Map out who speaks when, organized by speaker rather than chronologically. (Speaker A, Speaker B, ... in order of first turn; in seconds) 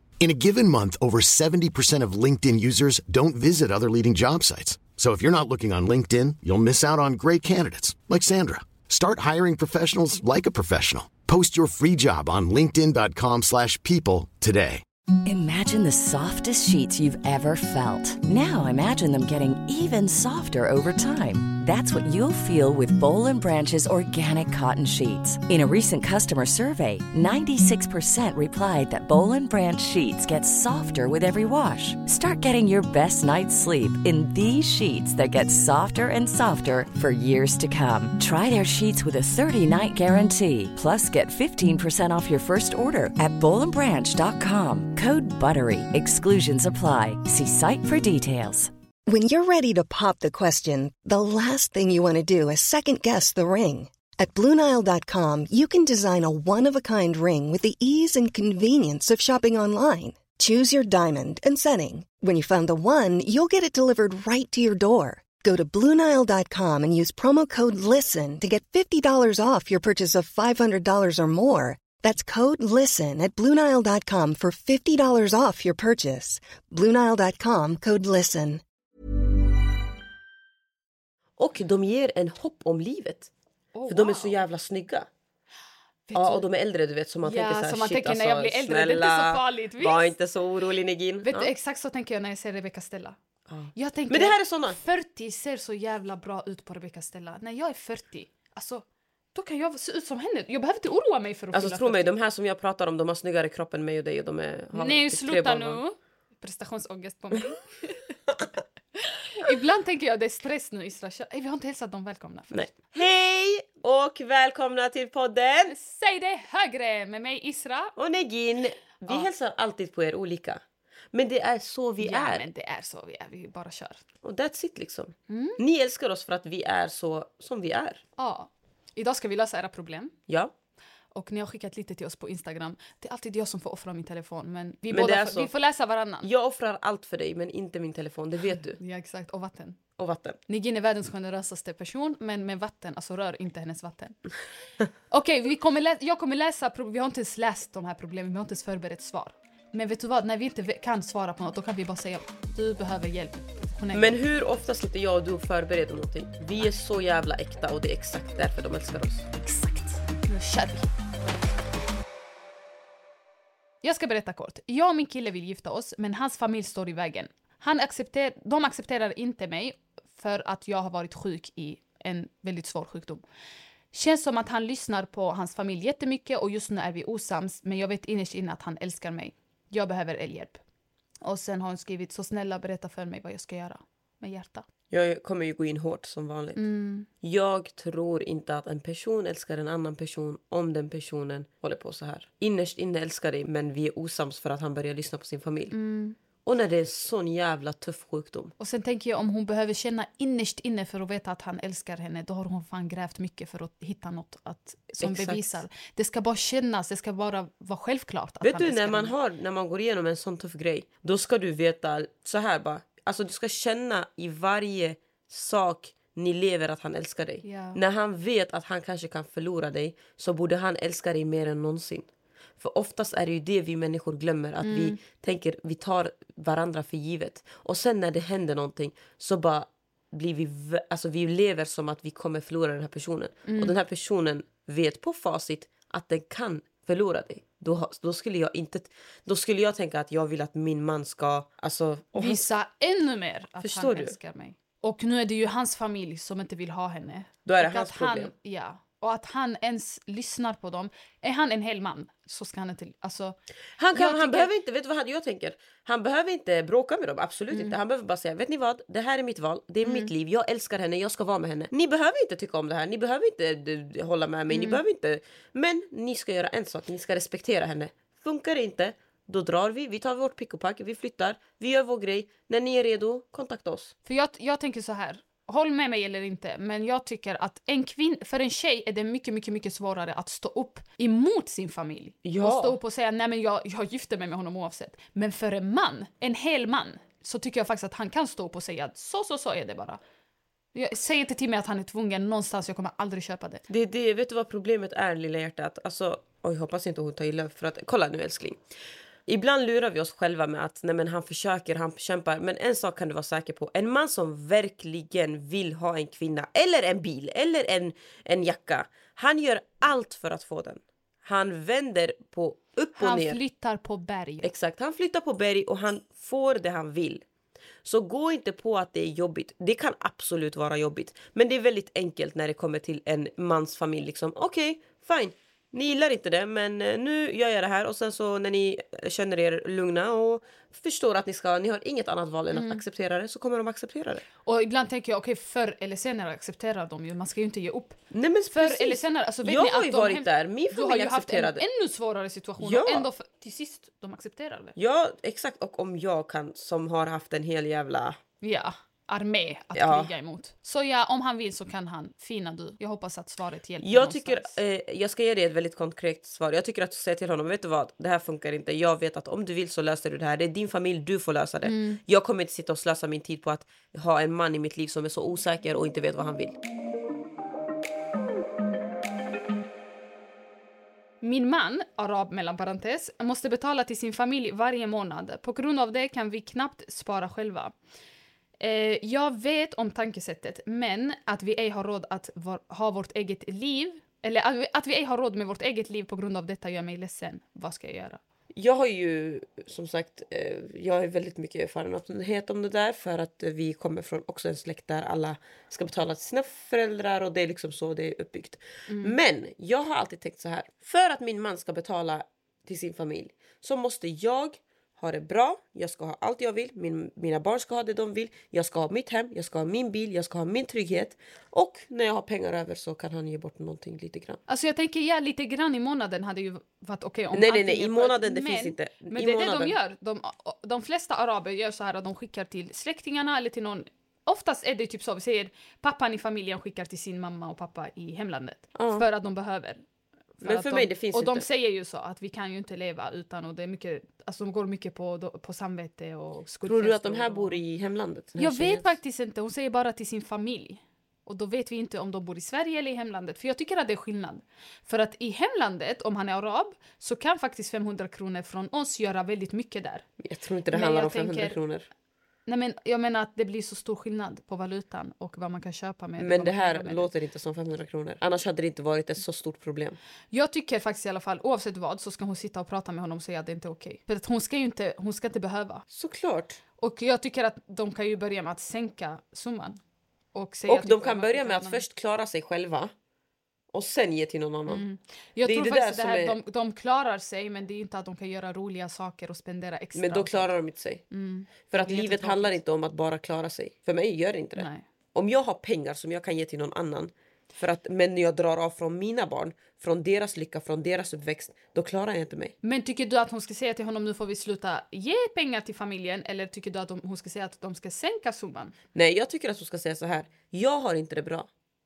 Speaker A: 0.2-14.8
Speaker B: 15.2-48.7
Speaker C: 49.1-78.6
Speaker D: 81.4-83.3, 83.9-85.1, 86.2-91.5, 93.5-94.8, 101.5-105.8, 112.5-115.7, 118.0-120.6, 121.1-122.5, 124.2-128.0, 134.9-135.5, 136.2-138.8, 140.0-140.4, 153.9-159.3, 184.9-186.6, 187.2-195.7, 196.4-198.5, 205.0-205.6, 208.4-222.1, 222.6-242.5, 243.6-244.2, 247.5-248.3, 253.8-273.9, 282.2-282.8, 293.7-298.6, 299.3-313.4, 314.4-317.2, 317.9-334.2, 338.1-341.7, 342.6-343.1, 344.8-348.2, 349.8-350.1, 353.8-366.6, 388.6-414.4, 417.3-419.8, 428.8-429.1, 430.4-431.4, 436.7-438.9, 450.2-451.9, 456.2-460.0, 465.9-466.6, 470.7-472.9, 473.7-474.8, 475.4-476.4, 479.9-481.0, 481.7-492.6, 498.9-501.5
Speaker E: 83.8-84.4, 86.1-86.5, 87.2-90.1, 91.2-93.2, 93.8-102.1, 104.7-108.1, 109.0-112.8, 115.7-117.9, 122.0-124.0, 125.3-125.6, 128.2-130.2, 131.1-136.3, 138.5-139.8, 140.5-144.2, 145.1-154.1, 159.4-160.9, 163.8-173.2, 173.9-180.6, 181.2-184.7, 186.6-187.1, 195.7-196.2, 198.6-209.1, 217.4-217.8, 224.6-225.0, 233.5-233.7, 242.2-253.4, 253.9-254.5, 257.5-257.8, 259.8-260.1, 264.5-264.8, 274.1-290.0, 290.7-293.6, 313.0-314.5, 332.5-332.8, 334.4-338.0, 338.5-344.8, 348.4-354.5, 361.6-362.0, 371.2-377.8, 378.6-388.2, 398.9-399.2, 414.5-429.8, 430.4-437.6, 438.4-450.1, 450.7-451.6, 452.5-457.1, 460.3-465.8, 466.8-469.8, 470.3-471.8, 474.7-480.5, 481.1-482.6, 484.6-484.9, 492.6-498.8